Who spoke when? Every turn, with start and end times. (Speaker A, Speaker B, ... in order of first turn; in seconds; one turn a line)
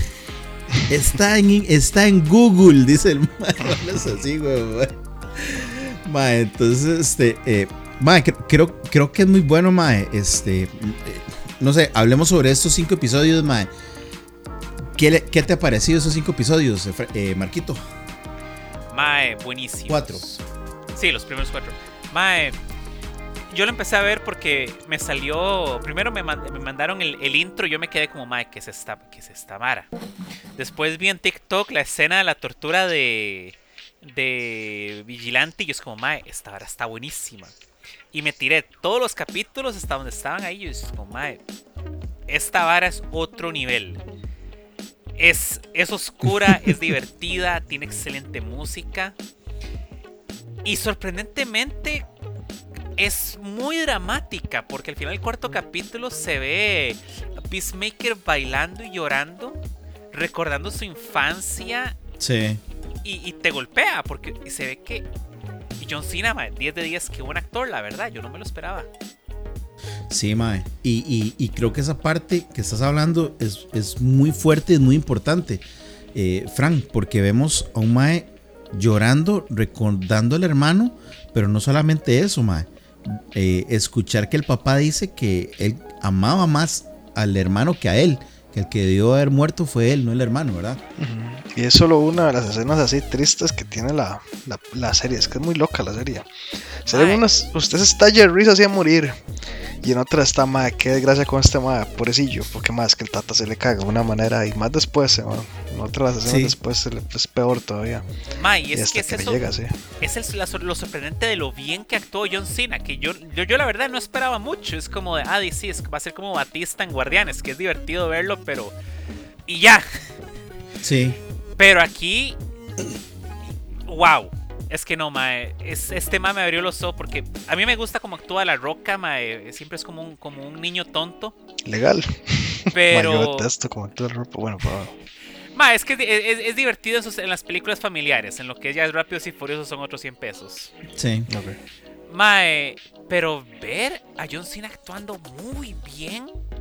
Speaker A: 0.9-13.7
Speaker A: 14.9-17.8
Speaker B: 18.9-20.4
Speaker A: 19.9-20.3
Speaker B: 20.9-22.6
Speaker B: 23.5-29.9
Speaker B: 30.6-37.5
Speaker B: 38.1-41.4
Speaker B: 42.3-44.0
Speaker B: 45.2-49.1
Speaker B: 50.6-52.1
Speaker B: 53.0-59.6
Speaker B: 60.1-62.0
Speaker A: 62.2-62.6
Speaker B: 63.0-65.1
Speaker B: 65.8-68.9
Speaker A: 70.1-90.8
Speaker C: 91.0-96.3
Speaker C: 96.9-99.2
Speaker B: 96.9-97.2
Speaker C: 99.8-108.1
Speaker A: 106.2-106.5
Speaker B: 108.4-109.5
Speaker C: 108.7-109.7
Speaker B: 110.0-118.8
Speaker B: 119.5-119.8
Speaker A: 120.8-121.2
Speaker B: 121.6-122.4
Speaker B: 123.9-131.3
Speaker C: 131.7-135.0
Speaker B: 132.7-133.5
Speaker B: 135.5-140.7
Speaker A: 140.9-141.3
Speaker C: 141.3-141.6
Speaker B: 142.1-146.3